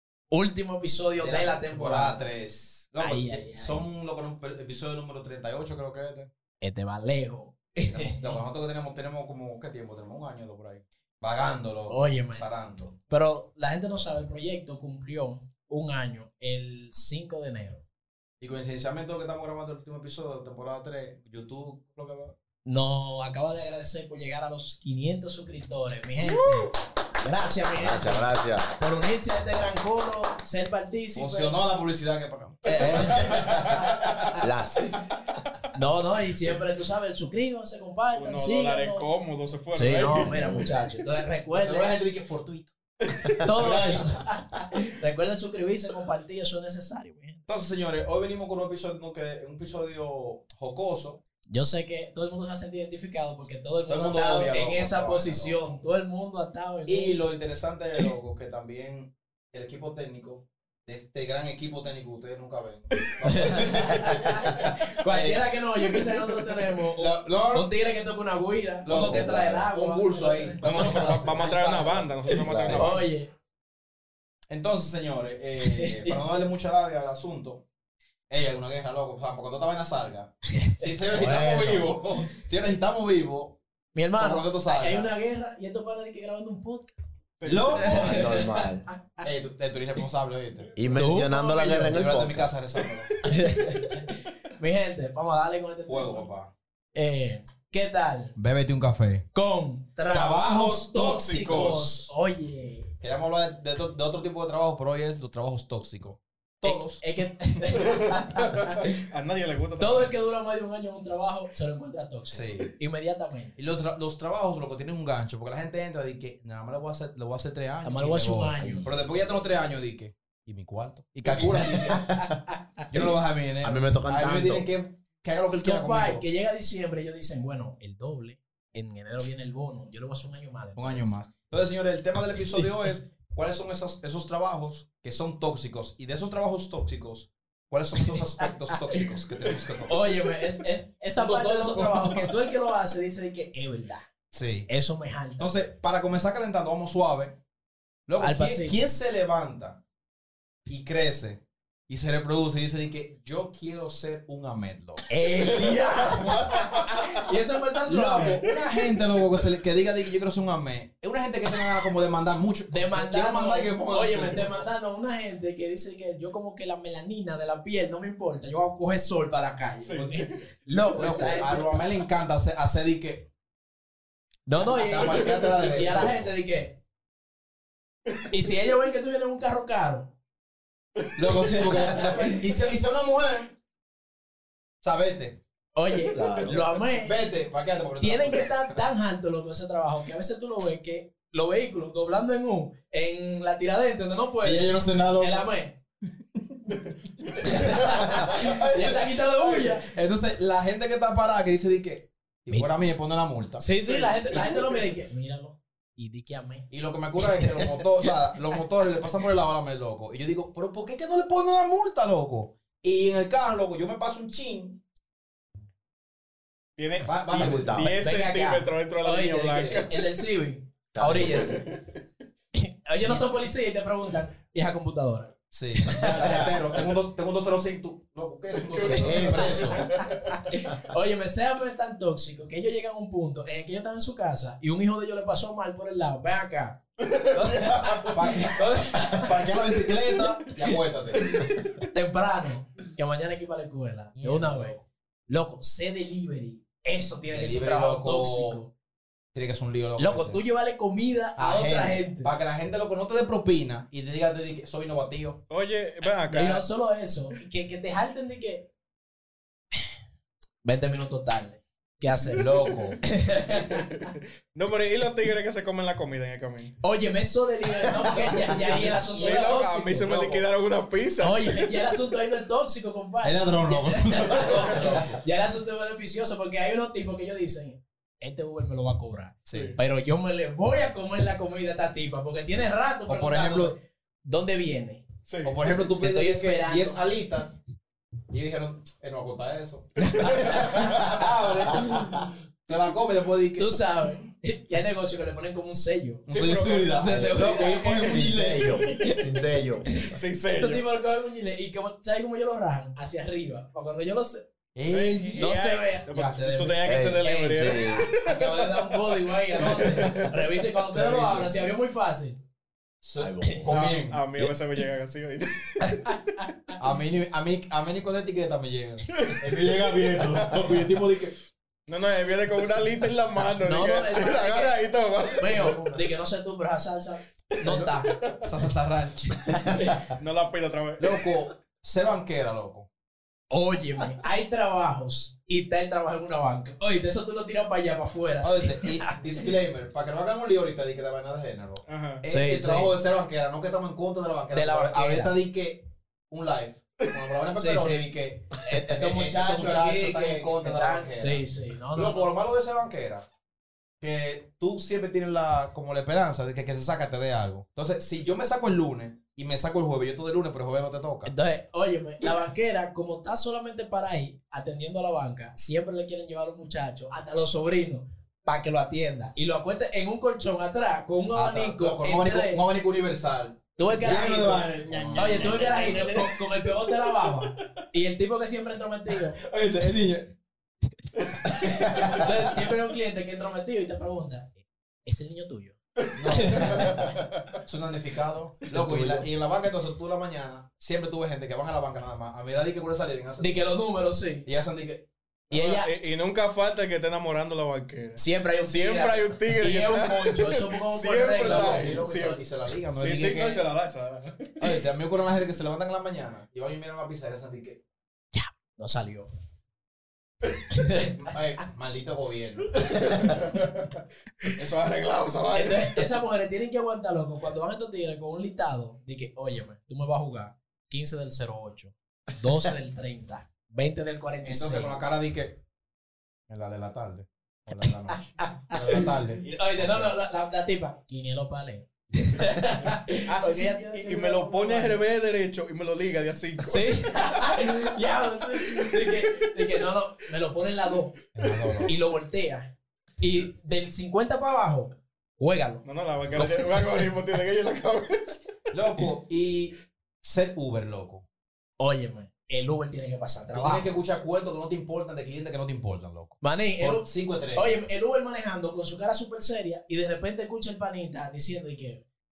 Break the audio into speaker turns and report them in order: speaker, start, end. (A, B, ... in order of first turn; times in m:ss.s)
0:00.3-0:02.3 A
0:01.2-0:06.3 B
0:03.0-0:03.8 A
0:06.6-0:08.4 A
0:07.8-0:13.0 B
0:11.9-0:12.5 A
0:13.1-0:17.8 A
0:18.4-0:22.3 B
0:22.6-0:31.6 A
0:27.8-0:28.7 C
0:31.2-0:34.4 B
0:32.6-0:33.6 A
0:33.2-0:33.9 D
0:34.4-0:35.0 C
0:35.7-0:39.1 A
0:38.1-0:40.6 D
0:39.7-0:42.0 A
0:40.1-0:40.7 C
0:41.5-0:42.7 B
0:43.0-0:44.0 D
0:43.4-0:47.4 A
0:43.6-0:44.2 B
0:47.5-0:51.2 B
0:51.5-0:57.2 A
0:53.9-0:55.8 B
0:56.9-1:05.5 B
1:03.2-1:11.2 A
1:05.8-1:06.1 D
1:07.0-1:07.7 B
1:08.8-1:12.9 B
1:09.0-1:09.3 C
1:10.6-1:13.0 D
1:12.4-1:12.8 C
1:12.8-1:13.3 A
1:14.5-1:17.6 B
1:15.6-1:16.2 A
1:18.3-1:23.6 B
1:20.5-1:21.9 A
1:21.2-1:21.8 C
1:23.9-1:27.0 A
1:24.2-1:25.1 B
1:27.4-1:28.0 D
1:27.4-1:28.3 B
1:27.7-1:28.8 C
1:27.7-1:29.2 A
1:29.2-1:33.2 B
1:30.8-1:32.5 C
1:30.9-1:31.4 A
1:33.2-1:36.2 A
1:35.8-1:36.5 B
1:36.9-1:38.3 A
1:38.4-1:39.3 B
1:39.3-1:42.9 A
1:40.1-1:41.8 B
1:40.9-1:42.1 D
1:43.0-1:47.0 B
1:46.6-1:49.0 A
1:47.9-1:50.1 D
1:49.8-1:53.5 A
1:52.3-1:52.7 B
1:53.6-2:02.2 B
1:57.8-1:58.9 A
2:01.3-2:02.8 A
2:02.9-2:06.2 B
2:03.6-2:04.7 C
2:05.6-2:11.1 A
2:10.8-2:20.1 B
2:18.0-2:19.0 A
2:19.8-2:24.1 A
2:21.2-2:22.3 B
2:24.3-2:24.7 B
2:24.7-2:25.5 A
2:25.4-2:27.4 B
2:28.1-2:29.8 B
2:28.2-2:28.9 A
2:30.7-2:35.0 B
2:35.1-2:38.4 A
2:35.6-2:36.7 D
2:37.9-2:44.7 B
2:42.7-2:51.8 A
2:49.8-2:50.4 D
2:50.9-2:53.3 B
2:54.5-2:56.8 A
2:54.6-2:56.3 B
2:55.0-2:55.7 D
2:58.3-3:00.1 A
3:01.0-3:01.9 D
3:01.2-3:03.5 B
3:01.3-3:02.7 A
3:04.8-3:05.4 B
3:05.7-3:07.1 A
3:06.1-3:06.7 C
3:06.8-3:08.7 B
3:08.0-3:15.8 A
3:14.4-3:15.5 B
3:16.4-3:24.8 B
3:17.4-3:19.9 A
3:23.6-3:26.7 A
3:26.7-3:34.8 B
3:27.2-3:27.6 A
3:36.8-3:40.0 D
3:37.0-3:37.8 B
3:37.3-3:37.9 C
3:37.9-3:41.6 A
3:39.5-3:39.8 B
3:40.9-3:41.6 C
3:41.2-3:42.0 D
3:42.5-3:46.5 A
3:45.5-3:50.0 B
3:46.1-3:46.6 C
3:48.5-3:50.3 D
3:48.8-3:49.7 C
3:49.1-3:59.5 A
3:57.0-3:58.2 D
3:58.1-4:01.3 B
4:01.4-4:04.8 A
4:04.2-4:04.8 B
4:05.3-4:08.7 A
4:07.3-4:08.6 B
4:09.3-4:10.4 B
4:10.0-4:12.3 A
4:11.4-4:15.4 B
4:15.5-4:16.6 D
4:16.3-4:18.7 A
4:20.6-4:24.1 A
4:22.3-4:23.0 B
4:22.6-4:26.8 D
4:26.8-4:30.4 A
4:29.1-4:31.8 D
4:31.2-4:45.0 A
4:33.2-4:35.2 B
4:39.5-4:39.8 B
4:39.5-4:39.8 D
4:43.1-4:43.8 B
4:45.2-4:45.8 D
4:45.4-4:47.6 B
4:45.9-4:47.0 A
4:48.3-4:53.8 B
4:50.0-4:51.1 A
4:50.3-4:50.7 D
4:53.6-4:56.2 A
4:56.3-4:58.9 B
4:56.3-4:56.9 D
4:56.9-4:58.3 A
4:57.1-4:57.4 C
4:57.9-4:59.9 C
4:58.9-4:59.3 A
4:59.8-5:04.4 A
5:00.1-5:00.8 D
5:04.7-5:05.5 B
5:04.9-5:10.4 D
5:05.4-5:12.4 A
5:06.8-5:08.1 C
5:09.6-5:10.3 B
5:10.9-5:11.5 B
5:13.0-5:14.5 B
5:13.4-5:13.6 A
5:13.6-5:16.2 D
5:15.8-5:16.7 A
5:16.8-5:21.4 B
5:19.1-5:21.0 D
5:21.9-5:25.7 D
5:23.6-5:24.8 A
5:25.4-5:28.2 A
5:25.4-5:26.1 B
5:27.6-5:29.8 B
5:27.7-5:28.6 D
5:29.5-5:30.0 A
5:29.8-5:31.3 D
5:31.0-5:32.9 B
5:33.5-5:39.4 A
5:38.4-5:53.2 B
5:41.9-5:42.2 D
5:42.2-5:42.9 A
5:44.5-5:45.3 A
5:47.5-5:48.0 A
5:48.6-5:52.3 A
5:54.0-6:01.3 B
6:01.2-6:12.6 A
6:11.3-6:16.3 B
6:13.8-6:19.4 A
6:14.8-6:16.4 D
6:19.4-6:20.3 B
6:21.4-6:21.9 D
6:21.5-6:27.1 A
6:21.5-6:22.4 B
6:26.1-6:27.1 B
6:26.4-6:27.4 D
6:27.6-6:33.9 B
6:28.7-6:29.2 C
6:33.4-6:34.5 A
6:34.4-6:35.1 B
6:35.5-6:35.9 A
6:35.5-6:44.8 D
6:38.2-6:42.4 A
6:41.3-6:43.6 B
6:44.6-6:47.8 B
6:48.3-6:49.3 A
6:50.7-6:51.3 A
6:51.2-6:53.6 B
6:53.0-6:53.9 D
6:54.4-6:56.1 D
6:55.5-7:05.0 A
7:04.4-7:05.6 B
7:06.5-7:10.1 B
7:08.4-7:15.0 A
7:13.3-7:19.7 D
7:16.7-7:21.2 A
7:21.3-7:21.9 B
7:21.8-7:25.8 A
7:25.8-7:28.4 D
7:26.3-7:26.6 B
7:28.7-7:31.2 B
7:31.8-7:33.9 A
7:33.5-7:37.8 B
7:36.4-7:42.0 A